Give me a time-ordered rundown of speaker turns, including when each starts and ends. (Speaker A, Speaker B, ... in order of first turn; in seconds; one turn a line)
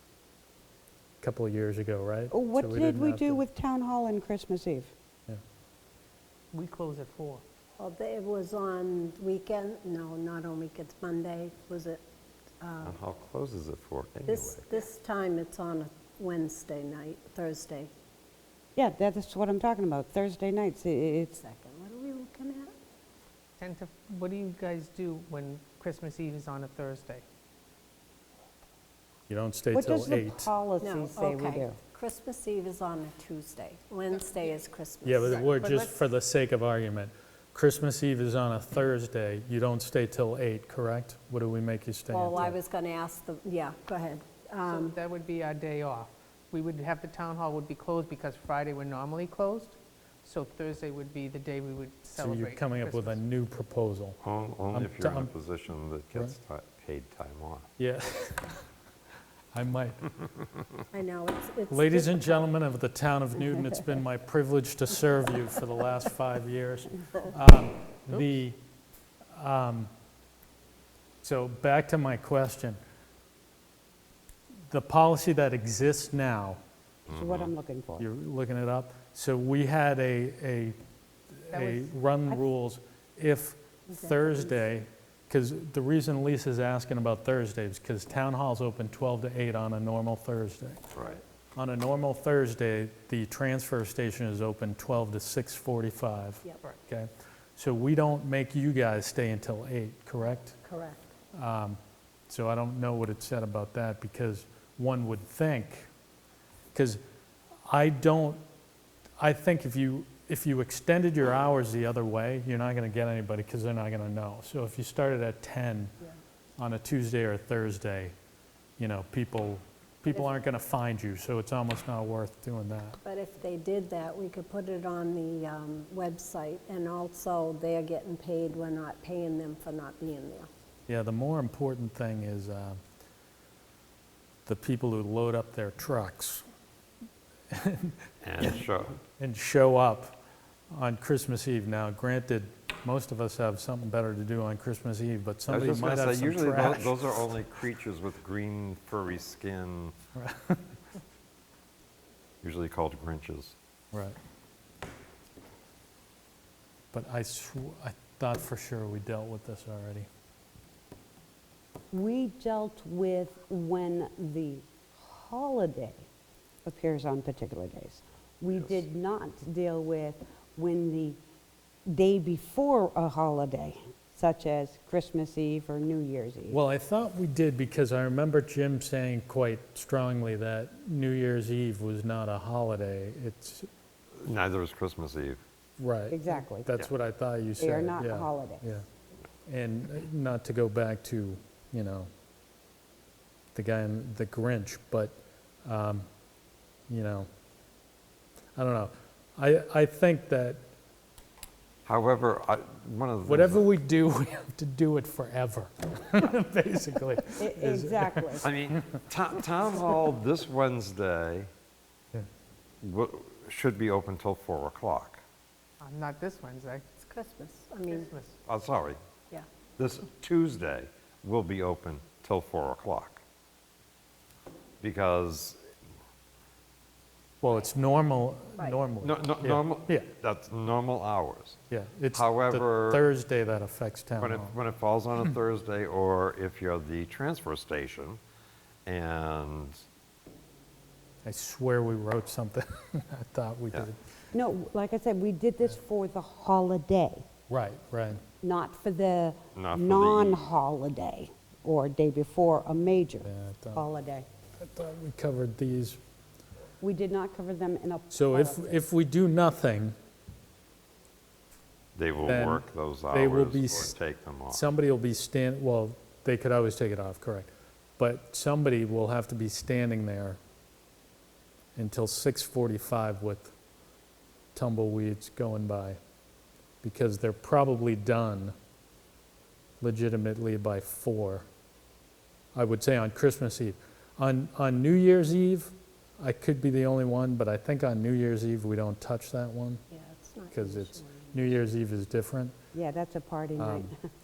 Speaker A: 1.2-3.4
Speaker B: 2.3-4.9
Speaker C: 6.5-7.4
Speaker D: 7.8-12.0
Speaker D: 12.6-13.0
Speaker E: 12.8-14.9
Speaker D: 14.2-17.9
Speaker B: 18.8-21.4
Speaker D: 21.4-22.7
Speaker C: 23.6-27.2
Speaker A: 29.3-30.5
Speaker B: 29.7-31.8
Speaker D: 30.8-35.4
Speaker C: 34.1-34.6
Speaker A: 35.0-42.6
Speaker C: 35.2-36.0
Speaker D: 42.1-45.0
Speaker C: 44.6-53.2
Speaker A: 52.2-54.2
Speaker E: 54.2-57.7
Speaker A: 54.7-55.3
Speaker A: 57.8-58.6
Speaker A: 59.5-60.0
Speaker D: 60.9-62.4
Speaker A: 61.7-68.6
Speaker A: 69.3-69.9
Speaker A: 71.2-72.8
Speaker A: 74.7-76.6
Speaker E: 77.1-77.5
Speaker B: 77.1-78.1
Speaker A: 78.0-80.8
Speaker A: 81.3-91.0
Speaker C: 81.5-82.3
Speaker D: 83.9-84.5
Speaker E: 90.9-91.2
Speaker A: 91.5-100.6
Speaker D: 100.6-101.1
Speaker A: 101.3-105.9
Speaker A: 106.7-107.0
Speaker A: 107.7-108.4
Speaker A: 109.2-115.9
Speaker A: 116.6-118.1
Speaker A: 118.8-123.0
Speaker D: 123.0-130.5
Speaker A: 130.9-132.8
Speaker A: 134.4-136.4
Speaker A: 137.5-137.9
Speaker E: 138.2-139.0
Speaker A: 139.2-140.2
Speaker A: 140.7-147.2
Speaker E: 145.5-149.9
Speaker A: 150.1-150.7
Speaker E: 152.4-153.6
Speaker A: 156.9-160.1
Speaker B: 161.9-166.1
Speaker B: 166.6-171.2
Speaker B: 171.9-176.6
Speaker A: 176.5-183.7
Speaker E: 184.2-185.4
Speaker A: 185.8-188.8
Speaker B: 186.1-186.7
Speaker B: 187.6-188.7
Speaker A: 189.4-192.1
Speaker A: 193.5-196.1
Speaker A: 196.9-197.3
Speaker A: 198.6-200.6
Speaker E: 201.8-203.6
Speaker A: 203.2-208.5
Speaker B: 207.4-208.5
Speaker E: 208.4-211.5
Speaker E: 212.8-215.2
Speaker C: 215.8-216.9
Speaker D: 217.0-218.1
Speaker C: 217.9-218.4
Speaker E: 218.5-219.0
Speaker E: 219.8-223.2
Speaker E: 224.8-225.6
Speaker A: 227.4-230.1
Speaker D: 228.6-228.9
Speaker E: 229.0-231.6
Speaker A: 231.7-234.5
Speaker E: 232.1-233.0
Speaker E: 234.2-238.2
Speaker E: 238.8-239.8
Speaker A: 241.2-244.0
Speaker B: 244.3-247.2
Speaker A: 247.5-248.2
Speaker B: 248.4-254.3
Speaker E: 249.5-250.4
Speaker A: 253.2-253.8
Speaker A: 254.6-256.0
Speaker B: 256.8-258.8
Speaker A: 258.1-259.9
Speaker E: 261.9-264.6
Speaker A: 262.3-263.9
Speaker A: 264.5-270.4
Speaker A: 271.8-273.5
Speaker A: 274.5-276.0
Speaker A: 276.8-278.5
Speaker A: 279.8-281.4
Speaker A: 282.5-289.8
Speaker D: 289.9-291.6
Speaker A: 290.5-292.5
Speaker B: 292.7-294.0
Speaker A: 293.6-293.9